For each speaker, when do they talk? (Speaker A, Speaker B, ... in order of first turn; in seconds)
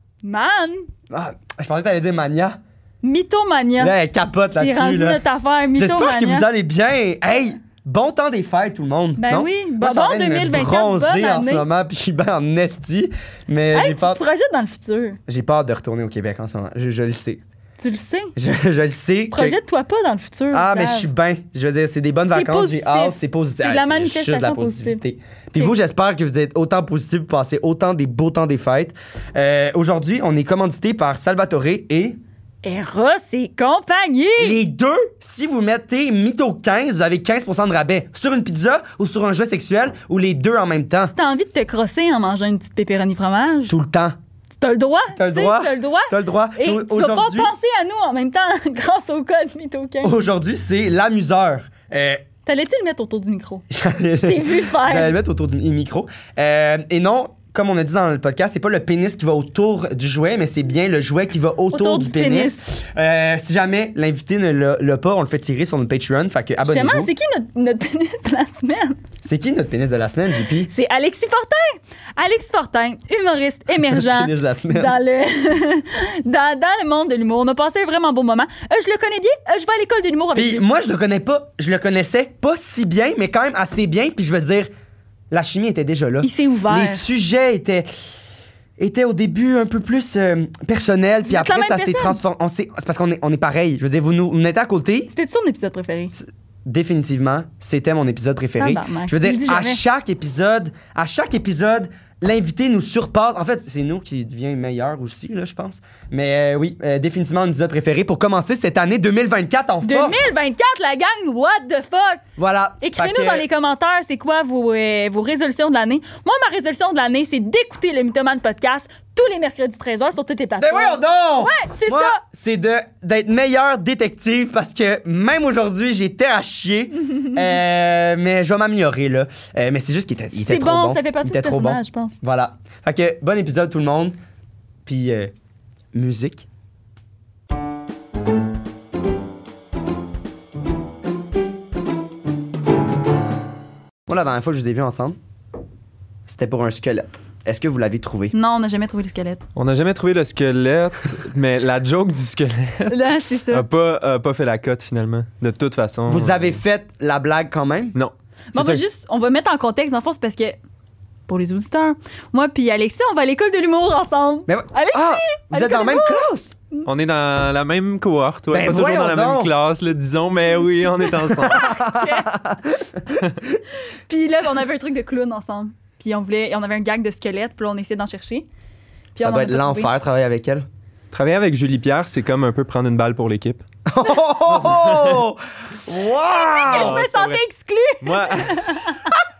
Speaker A: 0.2-0.9, 3.0-4.0, 4.5-6.5, 9.2-11.7, 13.7-15.2, 17.8-18.3, 19.3-21.1, 22.3-25.0, 32.6-34.6, 41.0-43.8, 44.6-50.1, 52.5-53.7, 54.2-55.1, 61.7-62.6, 66.6-69.0, 70.6-80.6, 86.2-87.0, 91.3-92.2, 95.1-96.2, 98.6-99.8, 109.8-112.2, 112.8-122.2, 130.3-132.2, 148.3-149.5, 152.9-153.7, 158.5-160.6, 161.3-166.9, 171.2-172.3, 173.8-178.5, 179.2-179.9, 186.3-189.1
Speaker B: 1.1-2.6, 3.8-5.2, 5.8-14.2, 15.3-17.4, 18.4-19.6, 20.5-32.2, 34.4-41.1, 43.7-44.2, 45.1-47.5, 50.0-52.2, 53.7-67.1, 69.2-70.7, 73.8-75.0, 80.3-84.7, 85.3-87.9, 88.8-95.1, 96.2-110.2, 112.4-113.5, 120.6-134.2, 134.8-135.3, 135.9-136.5, 144.1-145.2, 146.3-148.3, 156.1-157.9, 164.5-166.5, 168.5-169.5, 171.4-173.2, 179.2-180.7, 183.9-187.0
Speaker C: 149.6-156.6, 157.9-158.8, 166.9-171.8, 181.1-183.6, 184.5-185.2, 186.7-187.4, 188.0-189.0